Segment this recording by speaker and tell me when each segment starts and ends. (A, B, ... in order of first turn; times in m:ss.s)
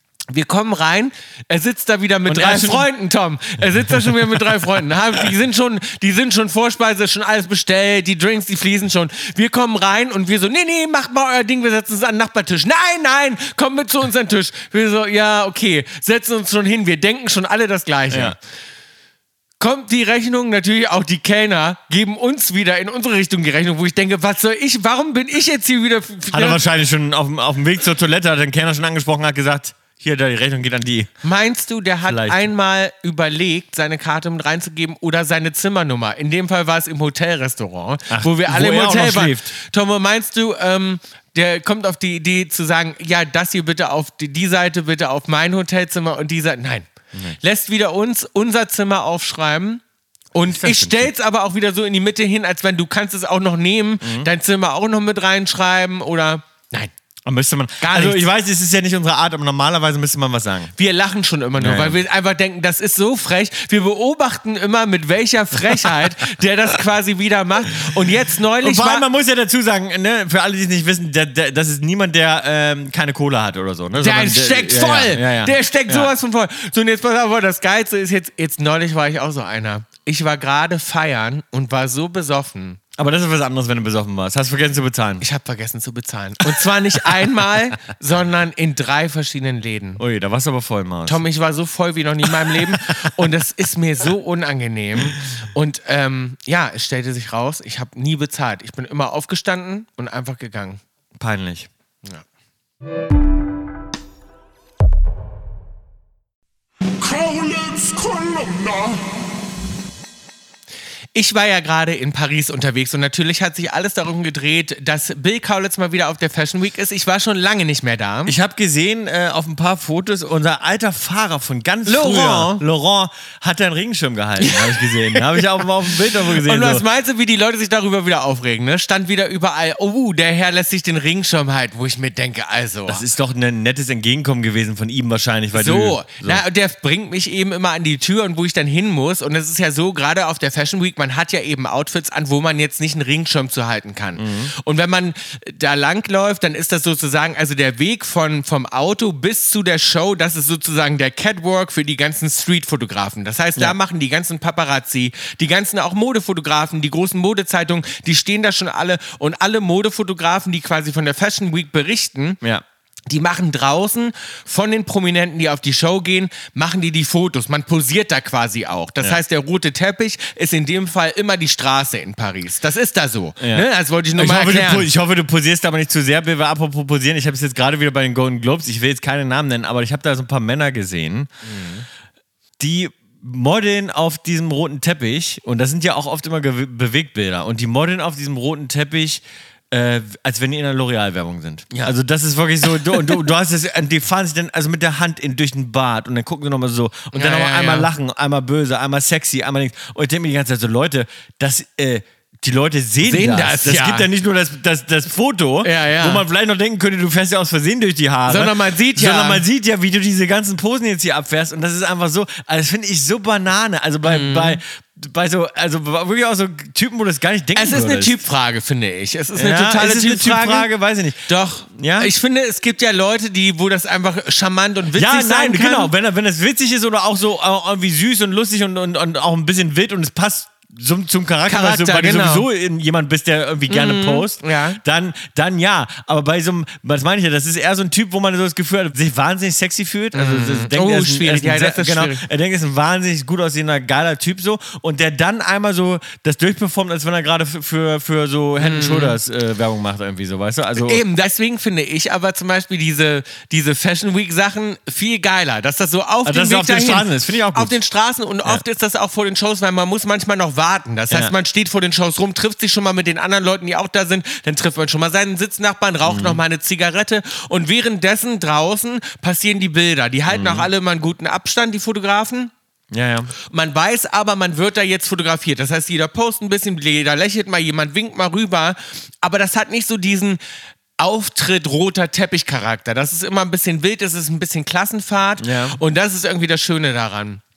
0:00.3-0:18.4 A
0:02.3-0:02.9 B
0:03.8-0:04.5 B
0:18.1-0:18.4 B
0:19.6-0:26.6 A
0:26.3-0:31.1 B
0:31.2-0:46.9 A
0:32.1-0:32.4 B
0:38.1-0:39.5 B
0:47.4-0:49.8 A
0:50.3-0:56.9 A
0:50.5-0:51.1 B
0:54.0-0:54.3 B
0:57.3-1:00.7 B
0:57.8-0:58.3 A
1:00.8-1:09.1 A
1:01.6-1:02.0 B
1:08.6-1:16.1 B
1:14.0-1:22.8 A
1:23.0-1:25.2 B
1:25.2-1:30.0 A
1:30.0-1:31.2 B
1:31.1-1:40.8 A
1:32.4-1:33.1 B
1:41.2-1:41.7 B
1:47.0-1:49.4 C
1:51.2-1:58.4 A
1:58.3-2:06.8 B
2:01.9-2:02.6 A
2:04.4-2:13.0 A
2:12.9-2:16.4 B
2:15.5-2:42.4 A
2:24.2-2:24.5 B
2:43.1-2:54.9 A
2:53.4-3:01.3 B
3:01.4-3:01.8 A
3:02.6-3:38.2 B
3:12.9-3:13.2 A
3:17.1-3:17.9 A
3:23.0-3:24.1 A
3:25.6-3:26.2 A
3:28.3-3:29.4 A
3:34.0-3:34.6 A
3:37.6-3:40.7 A
3:39.4-3:42.1 B
3:41.3-3:45.9 A
3:45.0-4:11.0 B
3:51.5-3:52.5 A
3:53.7-3:54.8 A
4:00.1-4:02.2 A
4:08.6-4:09.2 A
4:10.8-4:32.5 A
4:16.2-4:17.8 B
4:26.0-4:26.4 B
4:30.3-4:30.7 B
4:32.9-4:33.3 B
4:33.5-4:40.4 A
4:41.0-4:47.4 A
4:45.4-4:45.8 B